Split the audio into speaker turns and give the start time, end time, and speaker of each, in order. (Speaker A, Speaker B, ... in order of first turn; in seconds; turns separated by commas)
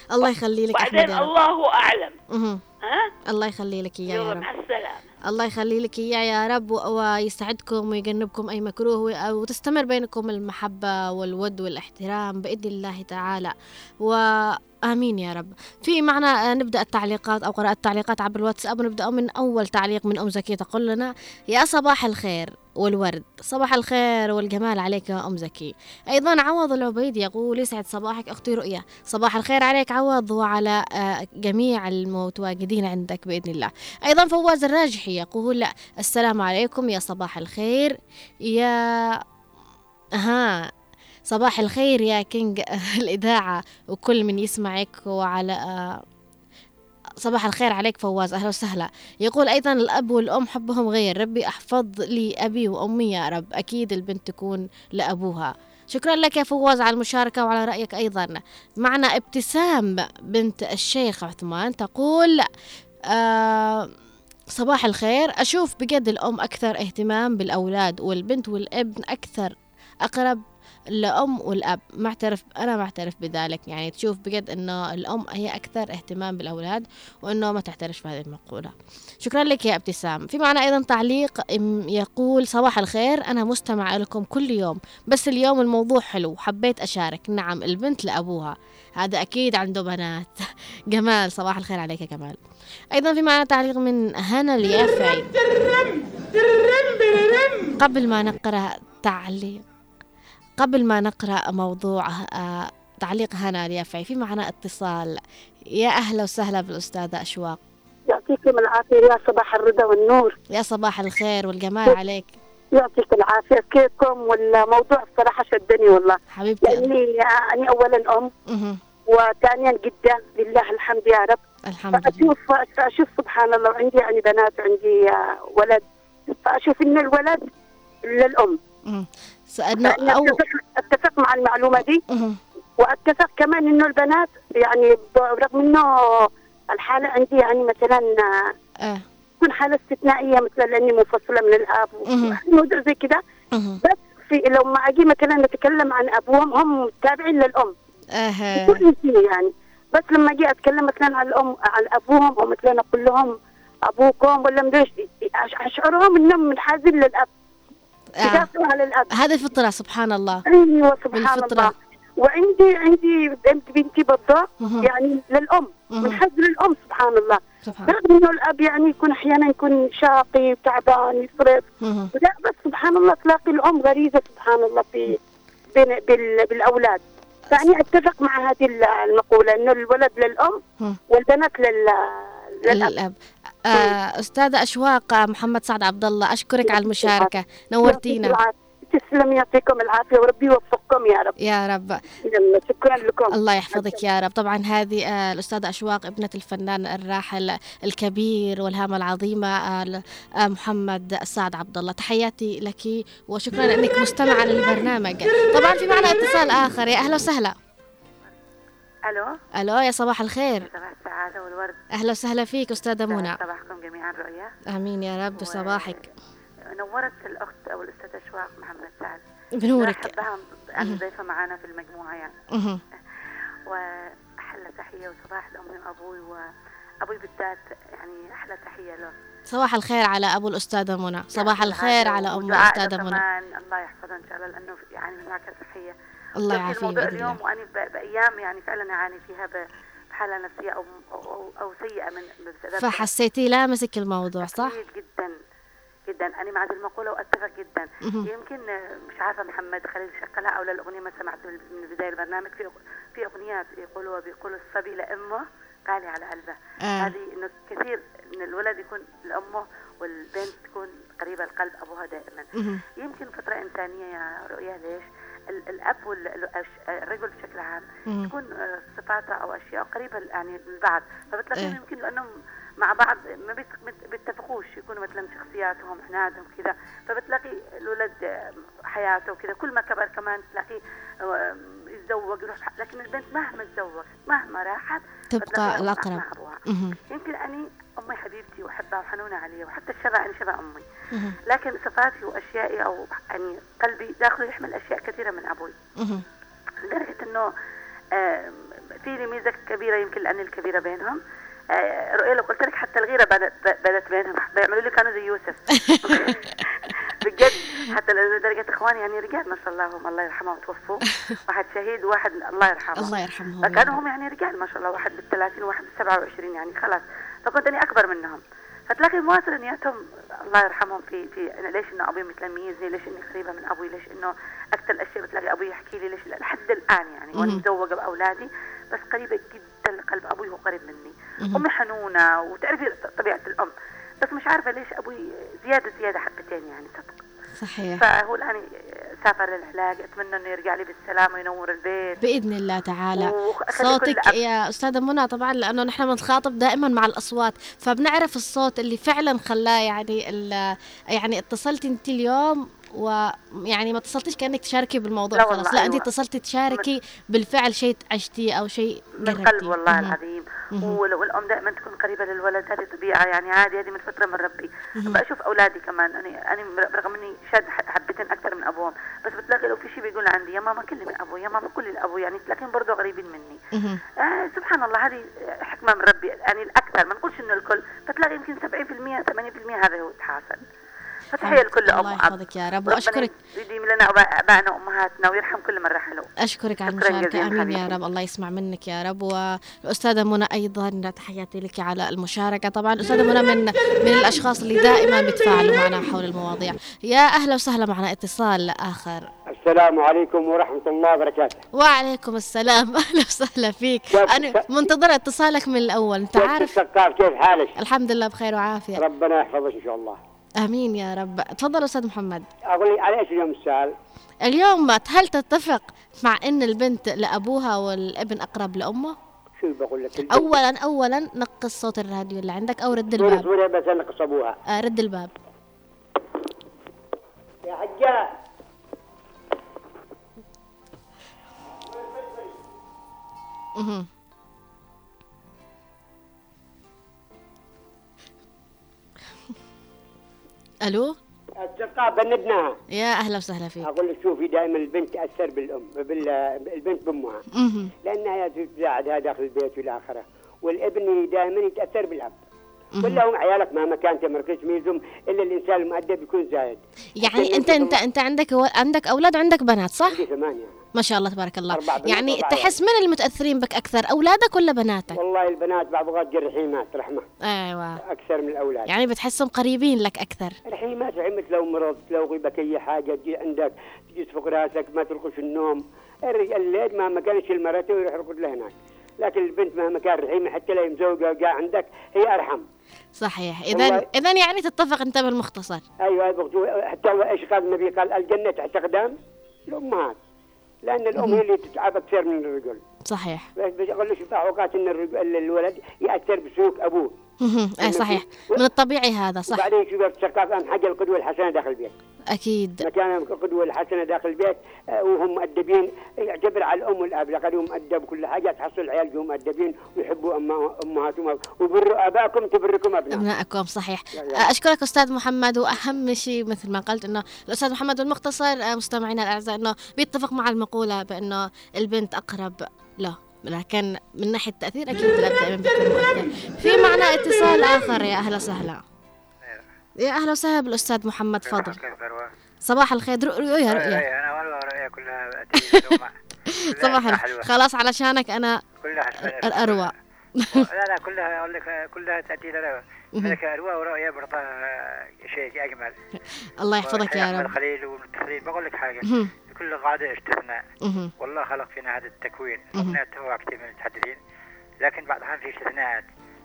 Speaker A: 0.1-1.3, Speaker B: 0.7-2.1, Speaker A: 2.3-2.6, Speaker B: 2.8-3.1, Speaker A: 3.3-4.5, Speaker B: 4.1-5.0, Speaker A: 5.3-37.9, Speaker A: 38.5-39.1, Speaker A: 40.2-40.6, Speaker A: 41.3-46.0, Speaker A: 47.2-62.4, Speaker A: 63.1-63.9, Speaker A: 64.5-70.4, Speaker A: 70.9-92.4, Speaker A: 92.9-95.3, Speaker A: 97.8-99.6, Speaker A: 100.6-105.2, Speaker A: 105.7-107.6, Speaker C: 108.1-110.3, Speaker A: 110.5-112.3, Speaker C: 112.8-118.3, Speaker A: 116.3-116.9, Speaker A: 118.5-118.8, Speaker C: 119.1-121.4, Speaker A: 121.7-122.3, Speaker C: 121.9-127.4, Speaker C: 128.1-128.6, Speaker A: 128.9-130.4, Speaker C: 129.8-132.0, Speaker A: 132.1-132.4, Speaker C: 132.8-138.2, Speaker C: 139.4-143.2, Speaker A: 142.1-142.4, Speaker A: 143.5-143.8, Speaker C: 143.8-147.7, Speaker A: 148.2-148.8, Speaker C: 148.5-153.3, Speaker C: 153.9-157.3, Speaker A: 158.2-158.5, Speaker C: 158.2-159.1, Speaker A: 159.1-160.4, Speaker C: 160.5-175.2, Speaker A: 161.1-161.7, Speaker A: 164.6-164.9, Speaker A: 165.9-166.2, Speaker A: 167.6-167.9, Speaker A: 171.8-172.1, Speaker C: 175.7-182.9, Speaker A: 182.7-188.4, Speaker C: 186.7-187.3, Speaker C: 187.8-191.3, Speaker A: 191.4-192.0, Speaker C: 192.3-194.0, Speaker A: 193.3-207.6, Speaker D: 209.1-209.3, Speaker A: 209.6-210.7, Speaker D: 210.6-211.8, Speaker A: 211.9-213.4, Speaker D: 213.1-214.5, Speaker A: 214.7-216.1, Speaker D: 215.3-216.0, Speaker D: 216.7-219.2, Speaker A: 219.6-220.2, Speaker D: 219.8-222.3, Speaker A: 222.5-222.8, Speaker D: 223.7-226.4, Speaker D: 227.0-229.1, Speaker A: 229.5-233.2, Speaker D: 231.3-235.9, Speaker A: 236.4-237.4, Speaker D: 236.5-239.6, Speaker D: 240.1-243.1, Speaker A: 242.8-244.7, Speaker D: 244.4-245.3, Speaker D: 246.1-262.5, Speaker A: 248.0-248.3, Speaker A: 256.8-257.1, Speaker A: 262.6-262.8, Speaker D: 263.0-272.3, Speaker A: 268.1-268.3, Speaker D: 272.8-278.2, Speaker D: 278.9-280.8, Speaker D: 281.3-286.6, Speaker A: 285.3-287.0, Speaker D: 287.1-290.8, Speaker D: 291.5-295.7, Speaker A: 296.0-296.2, Speaker D: 296.9-297.5, Speaker D: 298.1-301.2, Speaker D: 301.8-337.2, Speaker A: 305.9-306.3, Speaker A: 312.9-314.0, Speaker A: 327.4-327.6, Speaker A: 337.6-338.0, Speaker D: 338.0-338.6, Speaker D: 339.2-342.2, Speaker A: 342.2-360.1, Speaker D: 343.2-344.4, Speaker D: 355.3-356.1, Speaker D: 359.2-373.6, Speaker A: 373.7-374.0, Speaker D: 374.2-380.6, Speaker D: 381.3-386.3, Speaker A: 381.4-383.3, Speaker A: 386.4-399.3, Speaker D: 386.9-387.9, Speaker E: 399.5-401.6, Speaker A: 401.7-406.8, Speaker E: 404.1-404.9, Speaker E: 406.3-407.8, Speaker A: 407.8-409.0, Speaker E: 408.9-410.2, Speaker A: 410.6-412.5, Speaker E: 412.7-413.9, Speaker A: 414.4-419.1, Speaker E: 419.6-420.5, Speaker A: 420.3-423.5, Speaker E: 423.1-424.6, Speaker A: 424.7-425.3, Speaker E: 427.6-428.2, Speaker E: 432.0-432.4, Speaker A: 433.8-434.1, Speaker A: 440.8-441.2, Speaker E: 441.6-442.7, Speaker A: 442.9-443.9, Speaker E: 443.8-447.4, Speaker A: 447.5-447.9, Speaker E: 448.0-452.4, Speaker A: 452.9-453.2, Speaker E: 453.0-458.0, Speaker A: 457.2-460.2, Speaker E: 460.1-460.8, Speaker A: 460.9-465.2, Speaker E: 461.7-462.7, Speaker E: 465.1-467.2, Speaker A: 467.4-468.0, Speaker E: 468.1-468.9, Speaker A: 468.9-470.6, Speaker E: 470.7-482.6, Speaker A: 483.2-485.8, Speaker E: 483.7-484.1, Speaker E: 486.0-489.1, Speaker E: 489.7-490.2, Speaker E: 490.9-492.8, Speaker A: 493.1-493.5, Speaker E: 493.6-497.1, Speaker A: 497.4-499.6, Speaker E: 497.8-498.7, Speaker E: 499.5-501.9, Speaker A: 502.3-502.9, Speaker E: 502.8-513.2, Speaker A: 513.1-528.8, Speaker E: 514.1-514.5, Speaker A: 530.0-531.8, Speaker F: 531.4-532.3, Speaker A: 532.7-534.0, Speaker F: 533.7-536.1, Speaker A: 535.5-536.0, Speaker A: 536.5-538.6, Speaker F: 536.7-537.5, Speaker F: 538.8-539.9, Speaker A: 539.2-540.6, Speaker F: 540.5-545.9, Speaker A: 546.6-547.5, Speaker F: 546.8-550.6, Speaker A: 549.0-549.3, Speaker A: 550.8-551.1, Speaker F: 551.2-554.2, Speaker F: 554.8-556.1